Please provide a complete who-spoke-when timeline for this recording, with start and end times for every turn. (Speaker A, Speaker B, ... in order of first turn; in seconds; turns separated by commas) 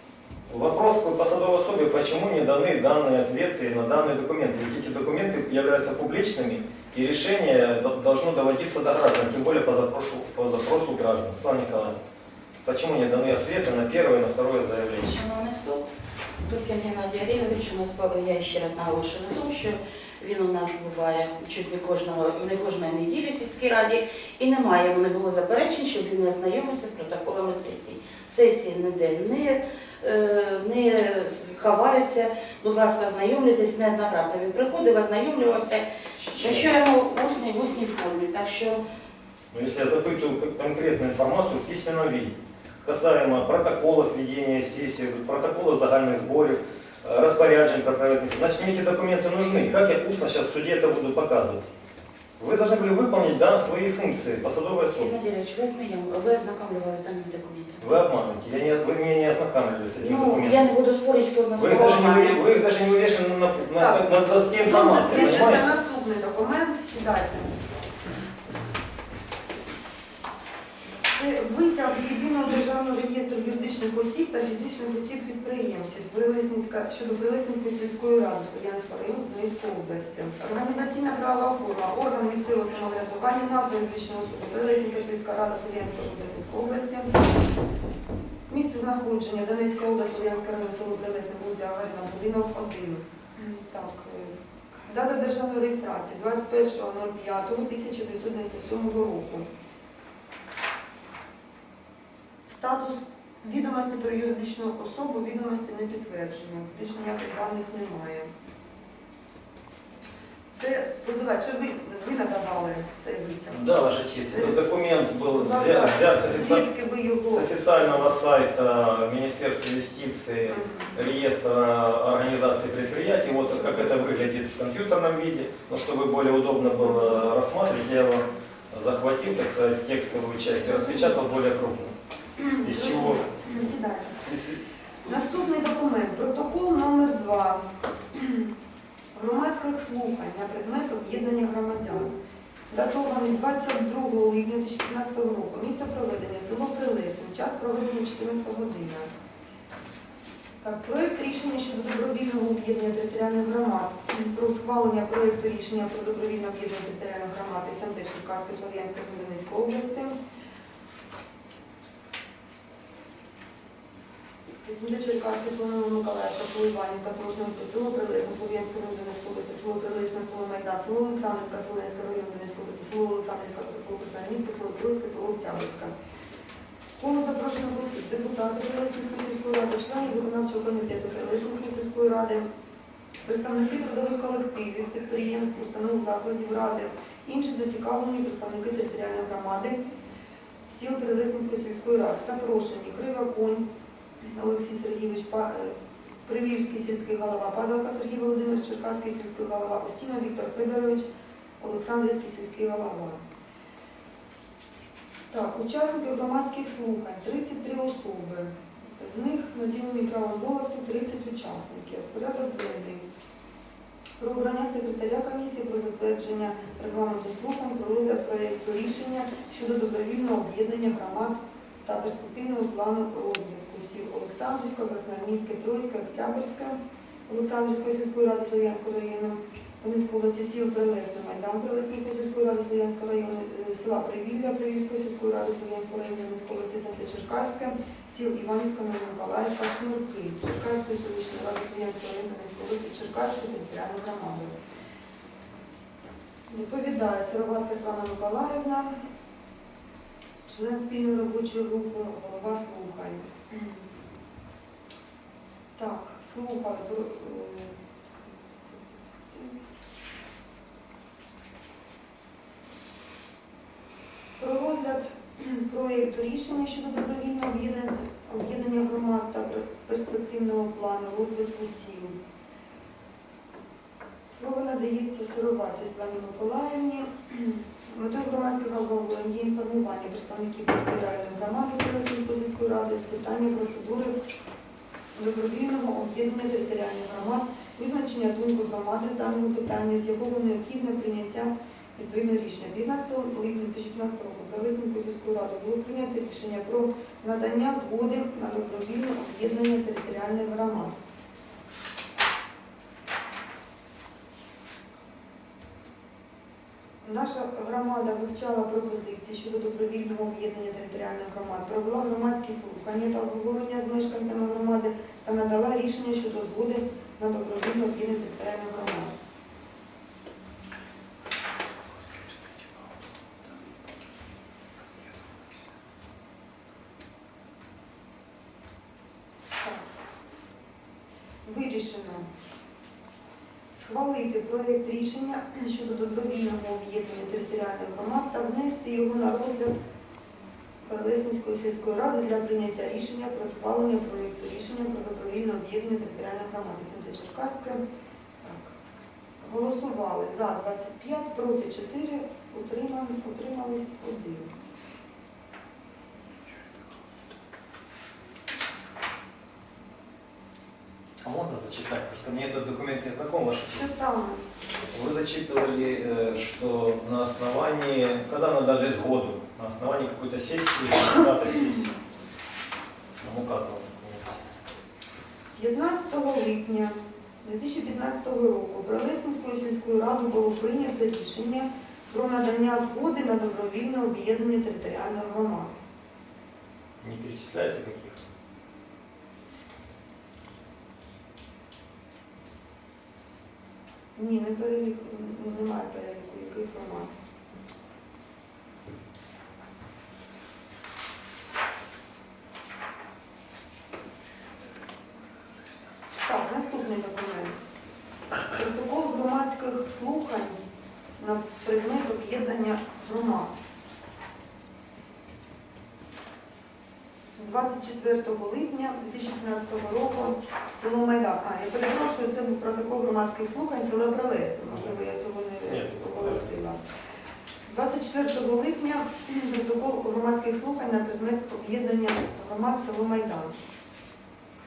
Speaker A: 0.5-12.0, Speaker A: 12.7-15.2, Speaker B: 15.0-15.9, Speaker B: 16.5-38.8, Speaker A: 36.2-36.7, Speaker A: 39.5-51.7, Speaker A: 52.4-55.1, Speaker B: 55.0-57.8, Speaker A: 57.8-60.7, Speaker B: 60.0-62.4, Speaker A: 61.6-65.7, Speaker C: 63.8-67.6, Speaker C: 71.1-87.2, Speaker C: 88.5-99.5, Speaker C: 102.5-108.3, Speaker C: 110.5-113.7, Speaker A: 113.5-116.7, Speaker C: 114.3-114.6, Speaker C: 115.3-117.5, Speaker A: 117.3-131.9, Speaker C: 120.5-120.9, Speaker C: 126.9-127.2, Speaker C: 130.7-131.2, Speaker C: 132.4-134.2, Speaker A: 132.6-134.6, Speaker C: 135.0-138.5, Speaker C: 139.1-142.2, Speaker C: 142.7-149.1, Speaker C: 150.6-160.2, Speaker C: 164.6-175.9, Speaker C: 177.0-182.5, Speaker C: 183.2-189.8, Speaker C: 190.7-193.7, Speaker C: 194.2-195.8, Speaker C: 196.3-201.1, Speaker C: 201.6-203.2, Speaker C: 205.3-213.1, Speaker C: 214.2-244.6, Speaker C: 246.5-249.0, Speaker C: 250.5-253.9, Speaker C: 255.8-257.8, Speaker C: 259.3-259.6, Speaker C: 264.4-272.2, Speaker C: 274.3-284.2, Speaker C: 285.1-301.0, Speaker C: 307.0-319.2, Speaker C: 329.6-329.9, Speaker C: 331.4-332.3, Speaker C: 333.7-339.7, Speaker C: 340.8-347.8, Speaker C: 348.4-348.8, Speaker C: 349.4-354.6, Speaker A: 361.2-363.9, Speaker C: 363.7-364.5, Speaker A: 364.9-371.9, Speaker A: 373.2-374.4, Speaker C: 375.6-385.7, Speaker A: 387.0-388.2, Speaker C: 394.1-397.1, Speaker C: 406.2-407.6, Speaker C: 408.5-410.6, Speaker C: 411.2-413.5, Speaker C: 417.4-426.8, Speaker A: 425.7-426.5, Speaker C: 427.7-433.6